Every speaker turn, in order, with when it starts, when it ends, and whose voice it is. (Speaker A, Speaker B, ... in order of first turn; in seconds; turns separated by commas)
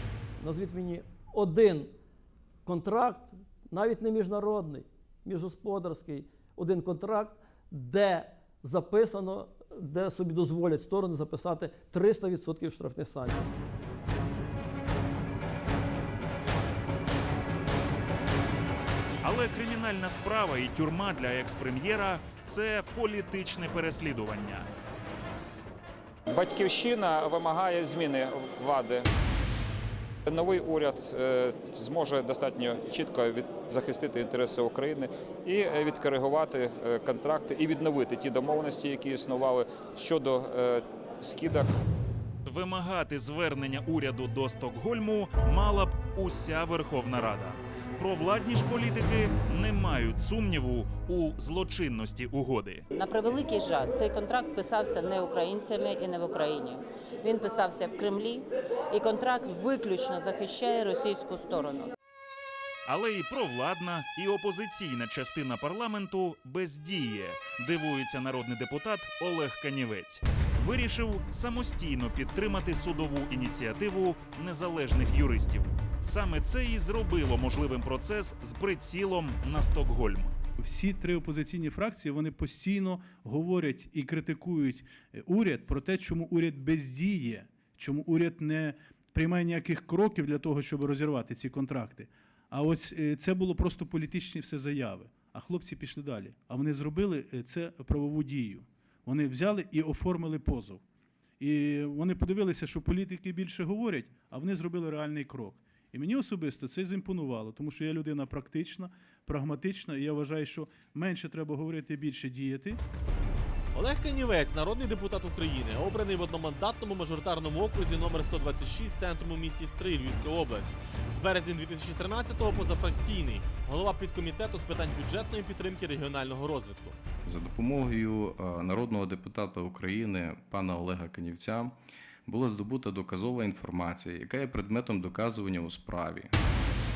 Speaker A: 0.4-1.9, Speaker A: 2.6-13.5, Speaker B: 19.2-24.7, Speaker C: 26.3-29.0, Speaker C: 30.2-41.7, Speaker B: 42.5-52.9, Speaker D: 52.9-61.9, Speaker B: 62.9-80.3, Speaker E: 80.6-100.8, Speaker E: 101.4-112.8, Speaker F: 113.7-127.0, Speaker G: 127.2-136.3